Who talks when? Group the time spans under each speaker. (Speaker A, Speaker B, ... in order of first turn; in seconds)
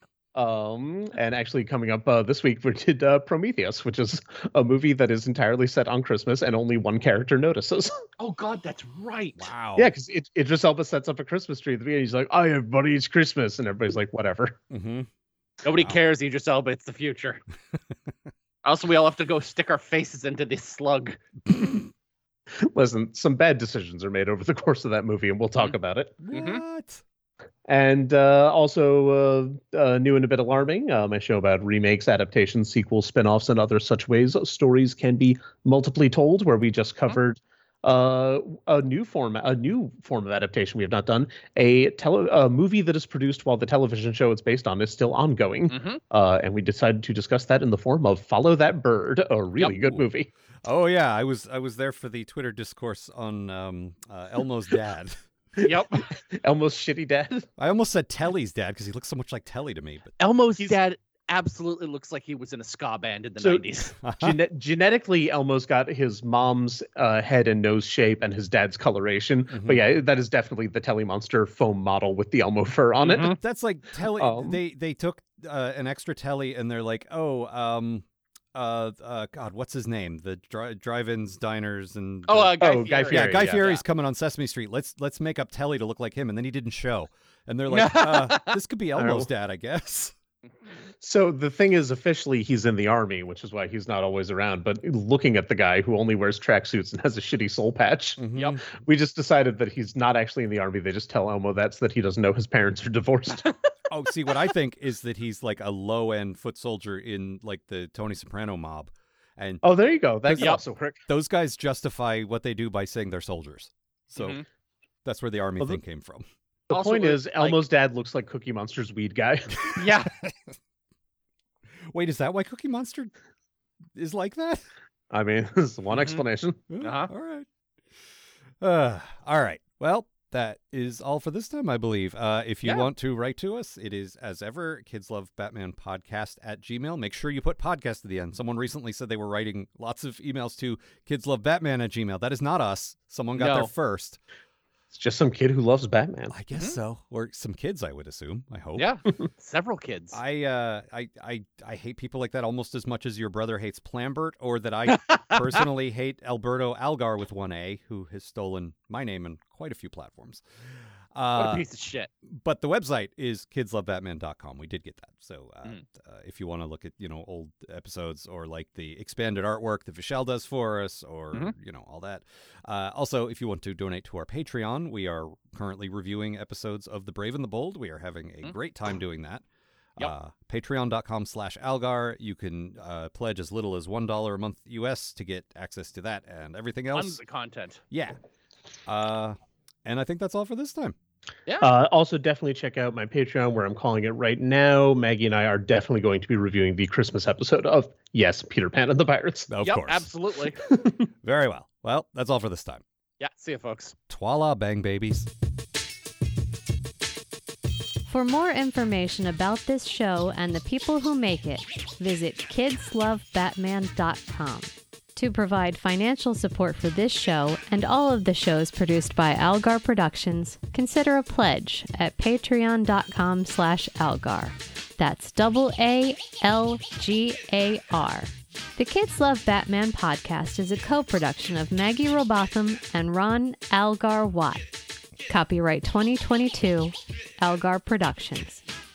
Speaker A: 0.3-7.9, 9.8-14.6, 22.6-26.2, 27.7-50.3, 56.4-57.5, 63.4-63.6, 64.2-73.3, 74.1-74.6, 82.6-83.7, 89.0-89.3, 91.0-103.5, 109.6-111.0, 116.7-119.8, 125.1-126.6, 144.9-146.3, 191.6-199.5, 200.7-201.1
Speaker B: 8.2-9.5, 15.6-17.4, 18.6-21.2, 26.3-26.6, 45.7-46.0, 55.6-56.0, 60.2-63.9, 73.0-73.4, 82.3-83.8, 87.7-88.6, 110.3-110.6, 114.2-114.4, 116.7-117.6, 119.7-120.1, 125.9-126.2, 126.8-127.1, 143.3-143.7, 148.8-150.2, 154.9-155.6, 161.3-162.1, 186.9-187.8, 199.6-200.6, 203.2-203.9
Speaker C: 9.4-9.9, 14.7-15.1, 26.2-27.0, 50.6-55.1, 57.6-60.1, 64.0-64.4, 69.5-69.9, 73.2-90.1, 98.2-98.6, 103.9-109.6, 110.2-114.4, 115.0-116.3, 120.0-120.5, 121.9-123.1, 124.0-124.7, 126.7-127.5, 128.6-144.2, 146.3-148.9, 150.1-160.4, 161.1-161.7, 162.2-179.4, 180.0-187.2, 187.9-188.2, 188.9-190.9, 199.5-200.1, 201.2-202.8, 204.1-205.3
Speaker D: 208.1-234.7, 235.2-238.6